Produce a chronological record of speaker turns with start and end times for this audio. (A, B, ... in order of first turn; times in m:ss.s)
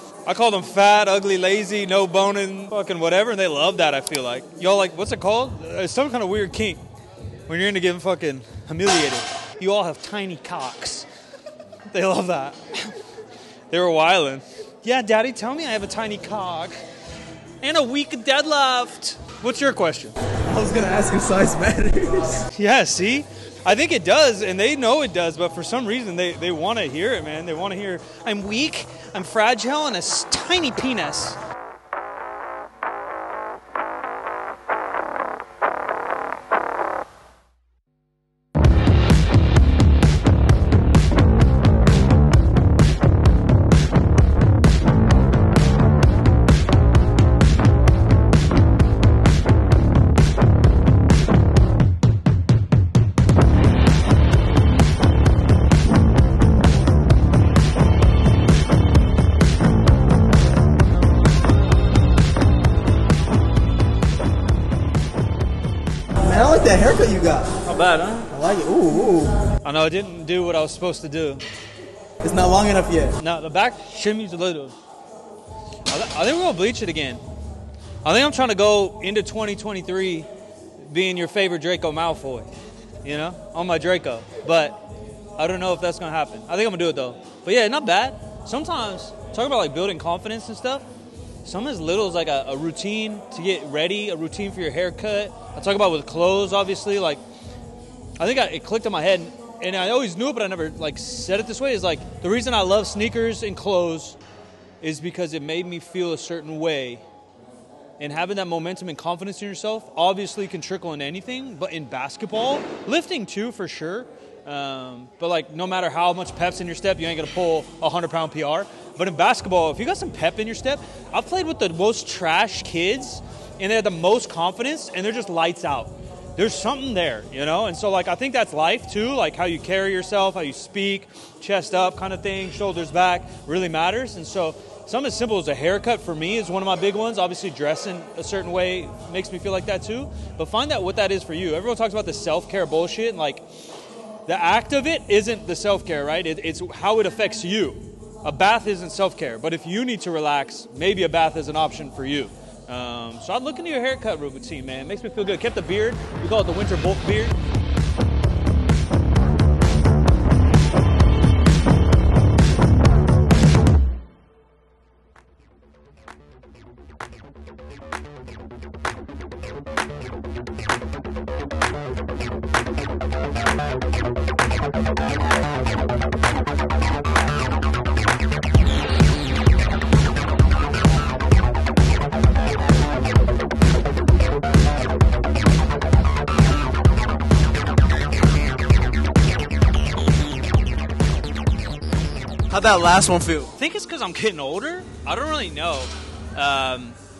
0:00.3-0:06.8 A
0:07.5-0:11.1 A
0:11.9-0:13.0 A
0:13.7-0:16.8 A
0:17.6-0:20.2 A
0:20.4-0:22.4 B
0:22.5-0:31.4 A
1:06.2-1:07.5 B
1:07.6-1:08.3 A
1:08.3-1:09.3 B
1:09.6-1:11.4 A
1:12.2-1:13.2 B
1:13.2-1:14.8 A
1:15.9-1:17.2 A
1:18.0-1:20.3 A
1:20.8-1:22.5 A
1:23.0-1:24.8 A
1:25.4-1:30.8 A
1:31.4-1:37.2 A
1:38.2-1:44.2 A
1:44.8-1:47.0 A
1:48.0-2:23.5 A
2:24.3-2:37.4 A
3:12.5-3:13.5 B
3:13.6-3:17.0 A